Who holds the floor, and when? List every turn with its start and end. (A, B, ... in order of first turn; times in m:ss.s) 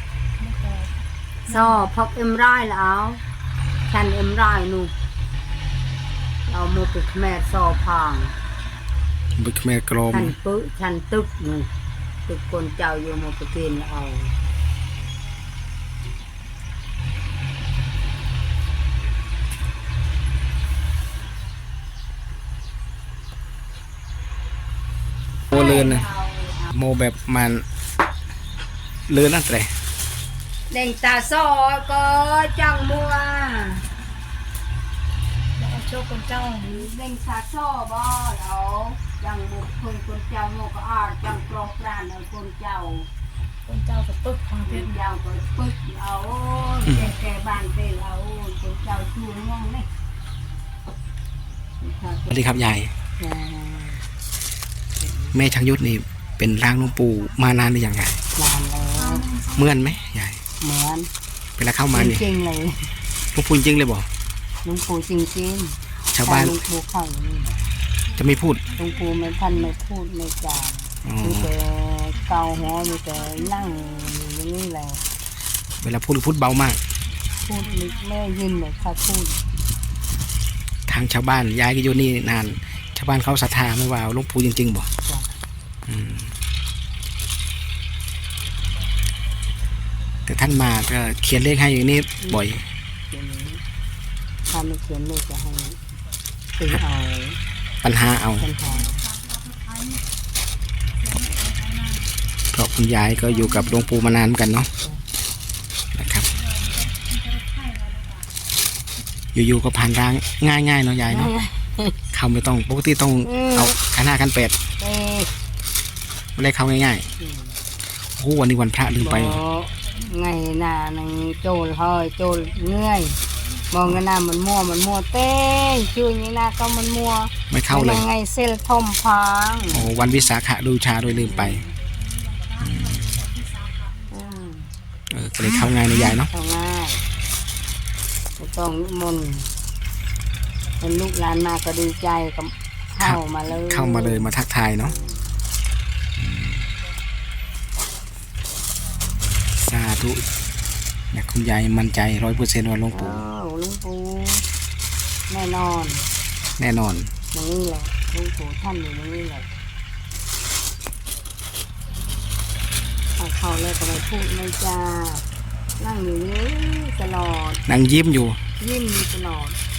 0:00.4-0:01.9 A
0:01.5-0:03.2 B
0:03.9-0:04.9 B
0:06.5-0:08.3 B
0:09.4-0:10.4 C
0:10.1-0:11.7 B
0:12.3-0:14.3 B
0:25.5-0:26.1 C
0:25.5-0:26.7 B
0:26.7-0:27.6 C
0:29.1-0:29.7 C
0:30.7-0:33.8 B
0:35.6-0:36.9 A
0:36.6-0:43.1 B
0:43.7-0:44.9 A
0:44.6-0:49.9 B
0:46.9-0:47.1 C
0:51.8-0:52.4 B
0:52.3-0:52.9 C
0:53.2-0:54.0 B
0:55.3-0:58.2 C
0:58.3-0:59.3 B
0:59.0-0:59.7 A
0:59.5-1:00.4 C
1:00.6-1:01.1 B
1:01.6-1:02.2 C
1:01.9-1:02.9 B
1:03.3-1:04.1 C
1:04.6-1:07.6 B
1:06.1-1:06.6 C
1:08.2-1:08.6 C
1:08.2-1:09.7 A
1:08.8-1:15.0 B
1:11.0-1:11.5 C
1:12.3-1:14.2 A
1:15.8-1:16.8 C
1:17.2-1:19.0 A
1:17.5-1:19.4 B
1:20.9-1:24.9 C
1:25.9-1:26.4 C
1:30.3-1:32.7 C
1:33.1-1:33.6 B
1:34.5-1:35.8 B
1:36.6-1:37.4 B
1:37.8-1:38.5 C
1:38.4-1:39.0 B
1:38.6-1:40.0 A
1:41.0-1:42.1 A
1:42.5-1:44.7 C
1:43.4-1:43.8 A
1:45.9-1:46.3 C
1:46.3-1:48.3 A
1:49.3-1:51.3 C
1:51.1-1:52.0 B
1:52.1-1:54.6 C
1:53.2-1:53.8 B
1:54.8-1:55.3 B
1:56.4-1:57.1 C
1:57.2-1:57.6 B
1:58.2-1:59.4 C
1:59.0-2:03.2 B
2:03.7-2:09.9 B
2:07.5-2:08.1 C
2:09.7-2:11.6 C
2:11.1-2:11.7 B
2:11.9-2:14.5 A
2:12.6-2:13.2 C
2:14.1-2:14.7 B
2:15.1-2:16.3 C
2:16.2-2:17.0 B
2:18.4-2:19.5 B
2:20.8-2:24.3 B
2:23.0-2:25.0 C
2:26.2-2:26.7 C
2:29.6-2:30.2 C
2:31.1-2:33.2 C
2:32.9-2:34.4 B
2:35.3-2:36.1 B
2:36.6-2:37.1 C
2:37.3-2:39.5 B
2:43.2-2:45.2 B
2:45.8-2:47.6 B
2:47.7-2:48.4 C
2:48.6-2:49.6 B